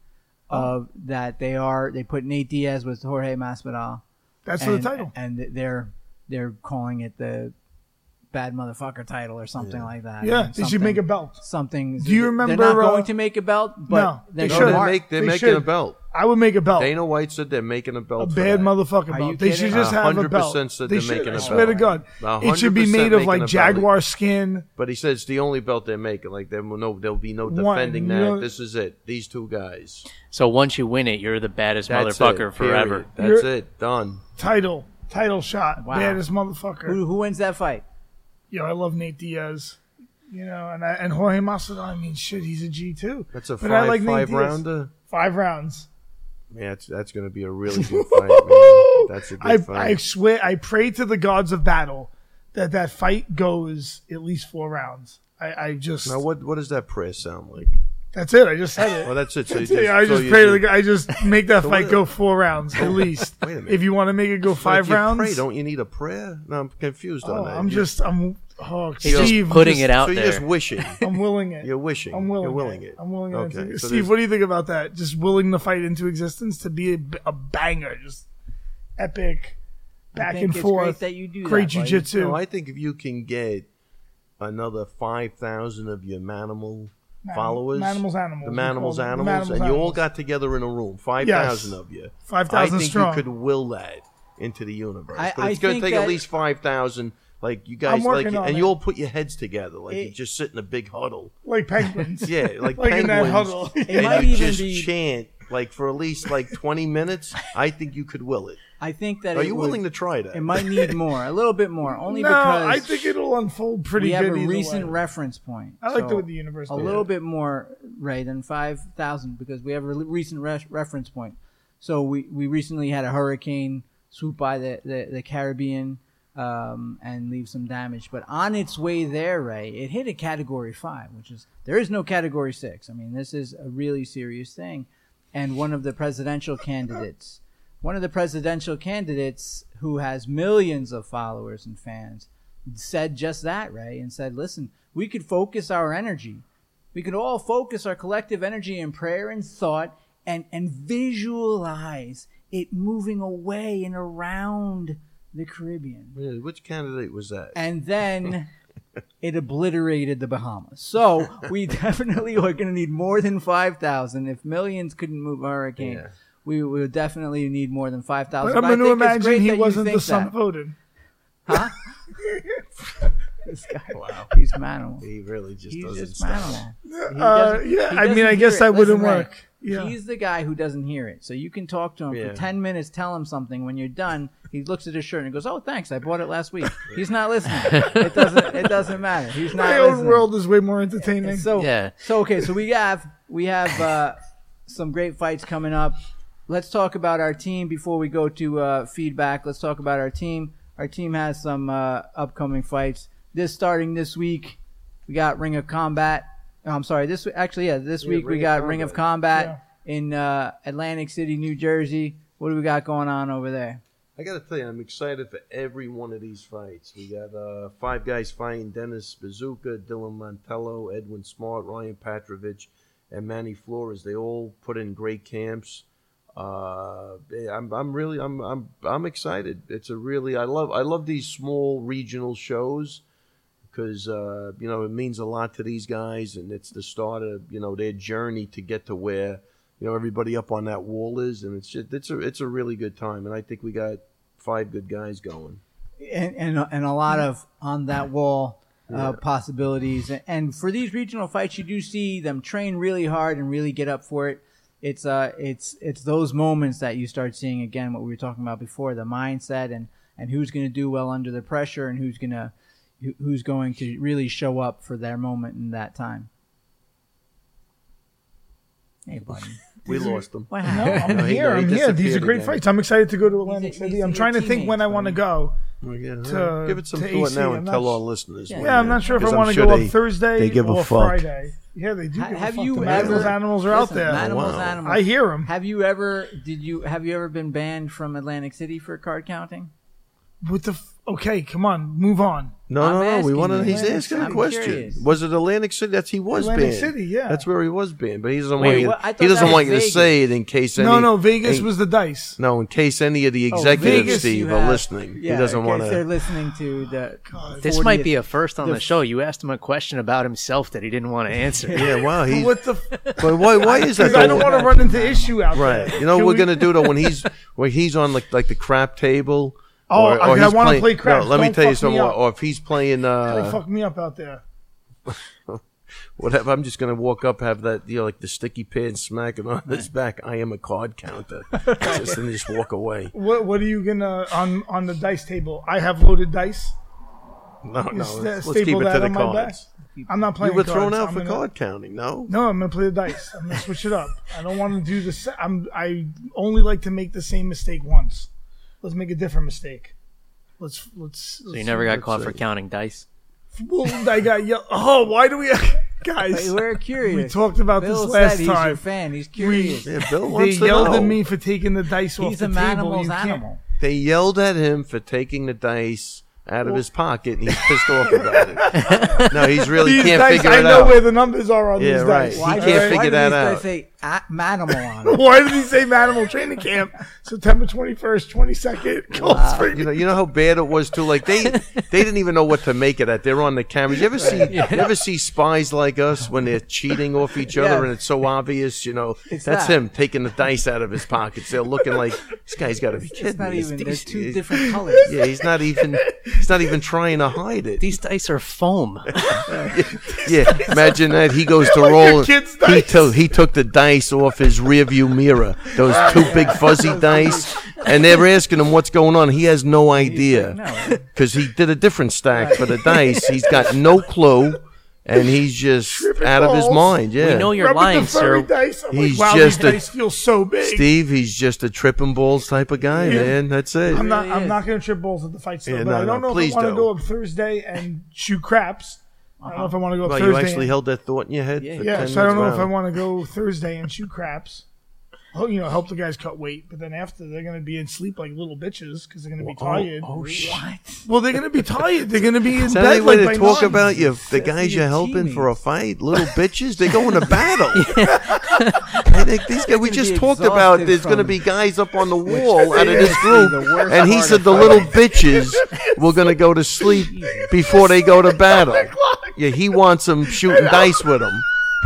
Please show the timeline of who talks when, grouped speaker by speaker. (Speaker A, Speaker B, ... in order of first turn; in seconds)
Speaker A: 0.5-4.0, 4.6-7.5, 8.3-15.0, 19.1-19.9, 21.3-22.0, 35.8-36.2, 36.9-37.8, 80.1-82.1, 95.2-96.2, 99.9-100.2, 103.9-104.9, 108.8-113.1, 114.0-156.2, 157.5-158.5, 159.2-170.3, 171.5-171.9, 173.4-175.1, 175.7-190.3, 191.2-213.8, 246.0-266.3, 269.1-269.7, 270.5-271.3, 273.3-275.2, 278.5-279.2, 282.1-289.7, 292.8-295.0, 298.6-300.1, 303.5-308.2, 311.5-311.9, 313.6-315.4, 331.6-332.2, 339.9-340.2, 356.3-359.9, 362.2-363.6, 372.3-375.2, 379.2-379.7, 384.2-384.7, 387.5-387.9, 389.3-389.8, 393.1-395.1, 399.5-399.8, 405.9-407.9, 410.0-411.0, 412.3-412.9, 422.9-424.6, 429.4-429.8, 431.6-432.5, 440.1-441.1, 443.4-445.5, 449.6-451.4, 452.2-455.0, 456.9-457.5
Speaker B: 4.5-5.1, 10.2-11.4, 12.0-13.1, 13.9-16.9, 18.2-24.7, 27.5-28.5, 33.2-33.5, 34.4-37.0, 38.5-39.8, 40.3-45.9, 47.7-56.2, 58.1-65.4, 67.2-69.9, 71.0-78.3, 79.0-79.6, 80.1-82.4, 87.2-90.0, 91.2-93.2, 97.8-98.7, 101.4-104.3, 111.8-115.0, 115.8-117.1, 168.4-170.8, 172.2-172.6, 176.9-179.9, 189.5-191.5, 209.3-209.6, 269.9-275.6, 276.2-278.0, 278.6-285.5, 290.4-292.6, 293.6-294.8, 296.3-297.4, 300.8-302.4, 303.8-304.3, 307.3-307.7, 312.3-316.9, 319.9-322.2, 323.3-324.4, 333.1-336.8, 337.9-341.4, 342.3-348.3, 348.8-349.9, 350.6-352.0, 353.5-358.8, 359.4-363.4, 367.6-373.0, 375.0-380.1, 395.1-396.5, 400.0-403.2, 405.9-406.6, 415.9-420.9, 423.0-423.4, 423.9-430.7, 431.8-434.6, 435.3-440.1, 441.1-443.8, 452.8-453.3, 455.1-456.1, 456.9-459.4, 460.3-461.2
Speaker C: 9.6-9.9, 14.4-16.0, 16.8-18.7, 19.7-23.9, 24.8-30.1, 31.9-34.2, 43.3-44.9, 46.5-50.0, 56.0-57.8, 59.0-60.6, 61.6-62.0, 62.8-63.9, 64.5-67.9, 69.0-71.0, 71.6-74.1, 82.1-83.7, 84.4-101.3, 102.2-108.6, 109.3-110.9, 116.8-117.0, 156.2-157.6, 165.8-166.1, 173.9-174.3, 175.0-176.6, 182.1-182.4, 208.0-209.0, 214.2-233.0, 233.7-245.6, 248.9-249.2, 269.9-272.6, 275.8-281.2, 282.8-283.4, 284.1-284.8, 292.7-301.7, 302.4-306.0, 311.7-312.6, 313.2-314.5, 315.5-323.6, 325.1-325.6, 326.1-333.1, 337.6-339.7, 340.4-342.3, 351.9-352.4, 359.8-361.2, 363.8-371.1, 371.8-373.7, 379.7-397.8, 399.2-417.5, 418.9-419.9, 420.6-424.1, 425.6-426.9, 430.0-432.7, 439.4-440.6, 442.6-448.0, 449.0-461.4
Speaker D: 30.3-33.1, 69.0-70.5, 187.7-188.0, 191.6-191.9, 298.6-298.9, 307.6-312.1, 312.9-313.2, 351.5-353.1, 368.8-369.3, 381.4-381.8, 384.5-384.9, 397.8-399.4, 417.2-418.5, 447.7-449.1